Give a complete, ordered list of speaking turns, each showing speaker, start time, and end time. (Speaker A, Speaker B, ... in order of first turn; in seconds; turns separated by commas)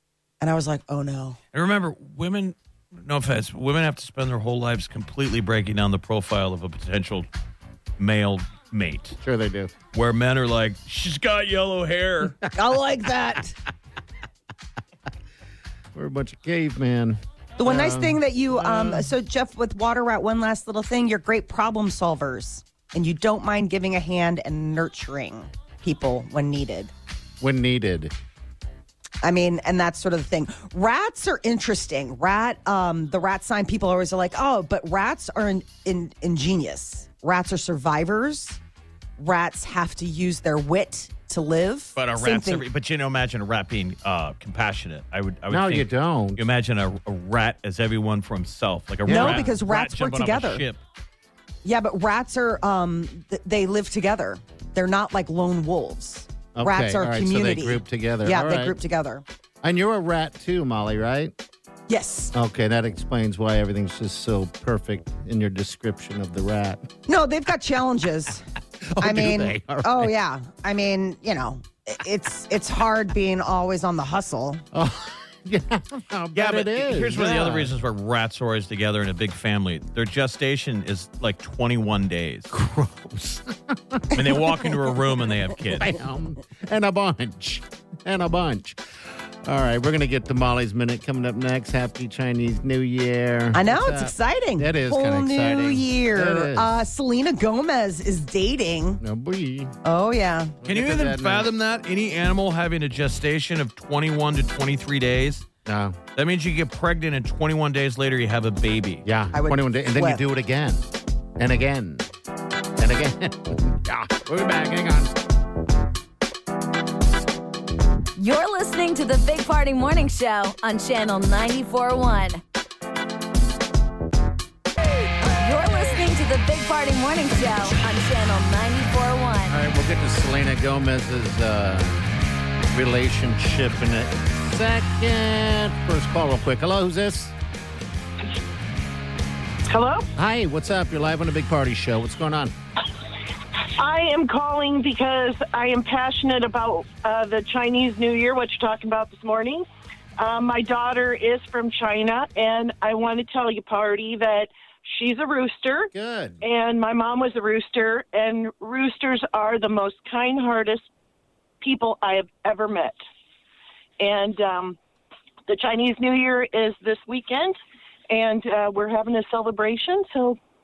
Speaker A: 0.4-1.4, Speaker B: 1.5-7.3, Speaker B: 8.0-9.2, Speaker C: 9.2-9.7, Speaker B: 9.9-12.4, Speaker A: 12.5-13.6, Speaker C: 15.9-19.1, Speaker A: 17.6-26.9, Speaker C: 27.4-28.1, Speaker A: 29.2-38.6, Speaker A: 39.2-42.6, Speaker B: 42.0-50.8, Speaker C: 45.5-46.4, Speaker C: 49.0-49.5, Speaker A: 49.1-50.6, Speaker A: 51.6-59.2, Speaker C: 56.6-58.8, Speaker C: 59.6-61.3, Speaker A: 61.9-62.3, Speaker C: 62.3-66.9, Speaker A: 67.1-68.4, Speaker C: 69.0-70.1, Speaker A: 69.0-74.6, Speaker C: 74.7-77.7, Speaker B: 76.3-82.5, Speaker C: 82.5-84.8, Speaker B: 84.1-85.9, Speaker C: 85.7-96.7, Speaker A: 93.5-99.0, Speaker C: 99.0-99.8, Speaker A: 99.8-100.6, Speaker C: 100.6-101.5, Speaker B: 100.7-105.5, Speaker C: 105.7-106.0, Speaker B: 106.2-109.0, Speaker C: 109.0-110.8, Speaker A: 109.3-110.2, Speaker C: 111.4-112.0, Speaker C: 112.8-115.1, Speaker D: 118.2-122.4, Speaker D: 125.3-129.6, Speaker C: 129.5-132.1, Speaker C: 132.7-137.3, Speaker E: 139.7-140.1, Speaker C: 140.2-142.5, Speaker E: 143.8-149.7, Speaker E: 150.2-160.8, Speaker C: 155.9-156.4, Speaker E: 161.6-163.0, Speaker E: 164.0-164.8, Speaker E: 165.5-167.6, Speaker E: 168.1-170.4